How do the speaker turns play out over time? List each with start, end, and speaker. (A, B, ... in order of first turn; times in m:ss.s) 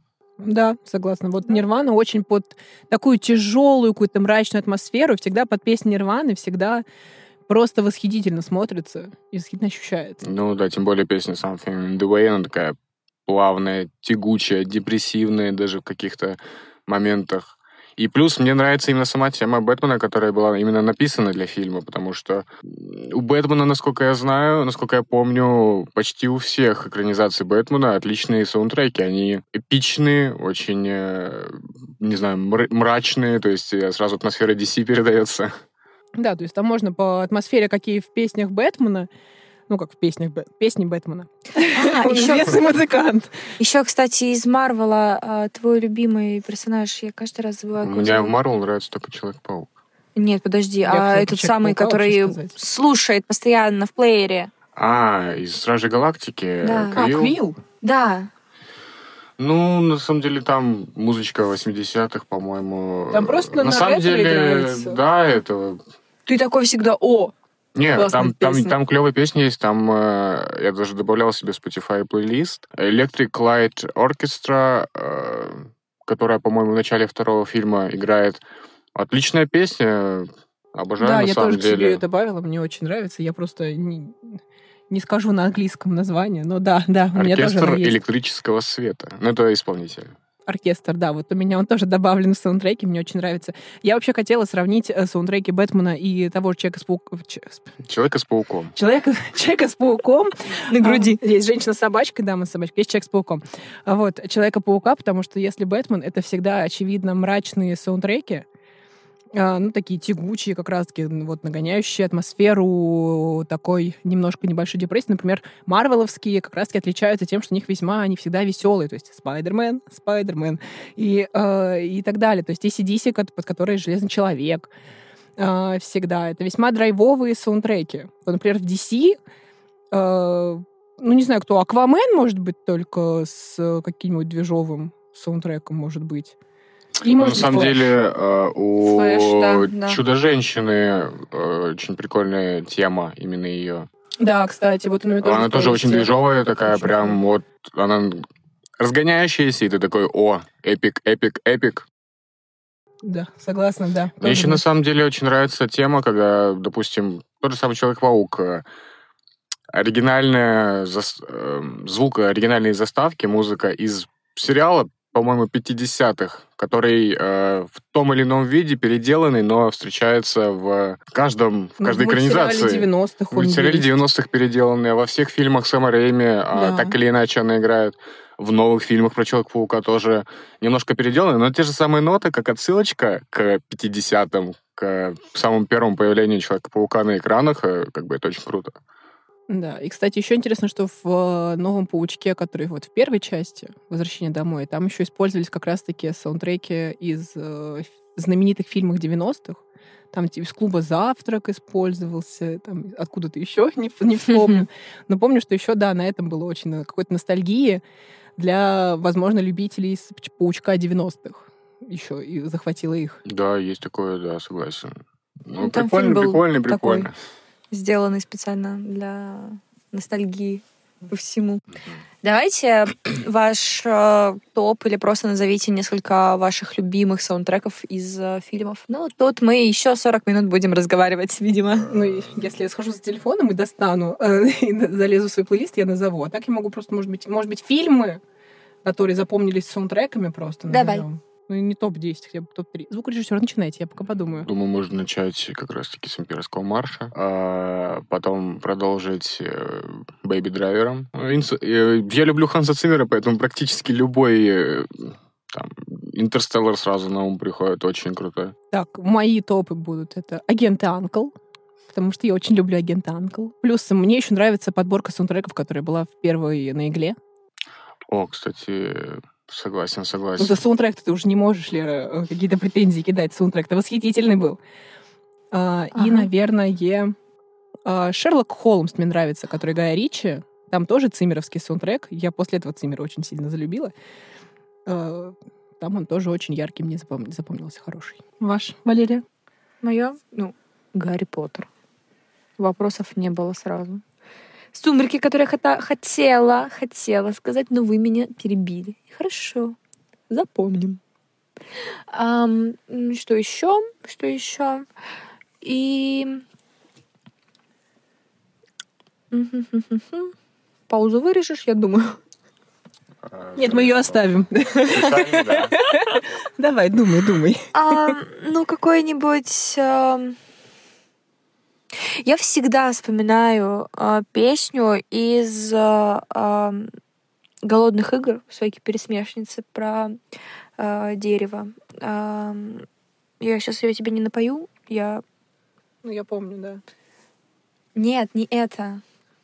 0:00.4-0:06.8 A
0:07.5-0:10.2 A
0:10.2-0:35.6 B
0:36.2-0:39.1 A
0:39.7-0:43.4 A
0:41.7-0:42.7 C
0:43.6-0:48.4 C
0:47.8-0:49.7 B
0:50.1-0:54.5 C
0:50.8-0:52.5 A
0:54.8-0:57.4 B
0:56.6-0:57.1 C
0:56.9-0:57.6 A
0:57.8-0:58.3 C
0:59.4-1:05.8 B
1:03.1-1:05.0 A
1:06.2-1:07.3 C
1:07.7-1:18.4 B
1:07.9-1:08.7 C
1:18.9-1:22.0 B
1:21.0-1:28.0 A
1:27.1-1:30.1 B
1:30.4-1:37.6 A
1:37.8-1:38.7 B
1:38.7-1:48.4 A
1:40.7-1:41.2 C
1:49.3-2:04.7 A
2:05.4-2:09.2 A
2:09.9-2:16.4 A
2:17.0-2:17.8 A
2:17.1-2:23.9 B
2:18.8-2:20.0 C
2:24.2-2:27.2 A
2:25.2-2:28.2 B
2:28.8-2:31.8 B
2:33.0-2:34.6 A
2:34.2-2:38.6 B
2:39.7-3:08.8 B
2:51.8-2:53.9 A
2:56.5-2:56.9 A
3:09.5-3:27.8 A
3:28.4-3:33.2 A
3:33.2-3:34.9 B
3:35.4-3:37.1 B
3:35.6-3:37.1 C
3:37.7-3:41.6 C
3:42.2-3:51.9 C
3:51.9-3:58.2 A
3:58.8-4:04.5 A
4:00.7-4:01.0 C
4:04.4-4:18.5 B
4:18.7-4:21.3 A
4:21.9-4:27.2 A
4:28.1-4:30.6 B
4:30.4-4:34.6 A
4:35.5-4:37.1 A
4:35.9-4:36.3 C
4:37.8-4:43.9 A
4:44.8-4:49.2 A
4:49.8-4:51.7 C
4:52.6-4:54.0 C
4:54.7-4:59.8 C
5:00.3-5:01.0 C
5:02.1-5:04.9 C
5:05.6-5:06.4 C
5:09.3-5:10.3 C
5:10.9-5:12.2 C
5:13.2-5:14.2 B
5:13.6-5:18.1 A
5:14.8-5:15.7 B
5:17.7-5:20.4 C
5:22.1-5:26.9 C
5:27.6-5:30.2 C
5:30.8-5:32.8 C
5:33.4-5:35.2 C
5:36.0-5:36.8 A
5:37.9-5:39.0 C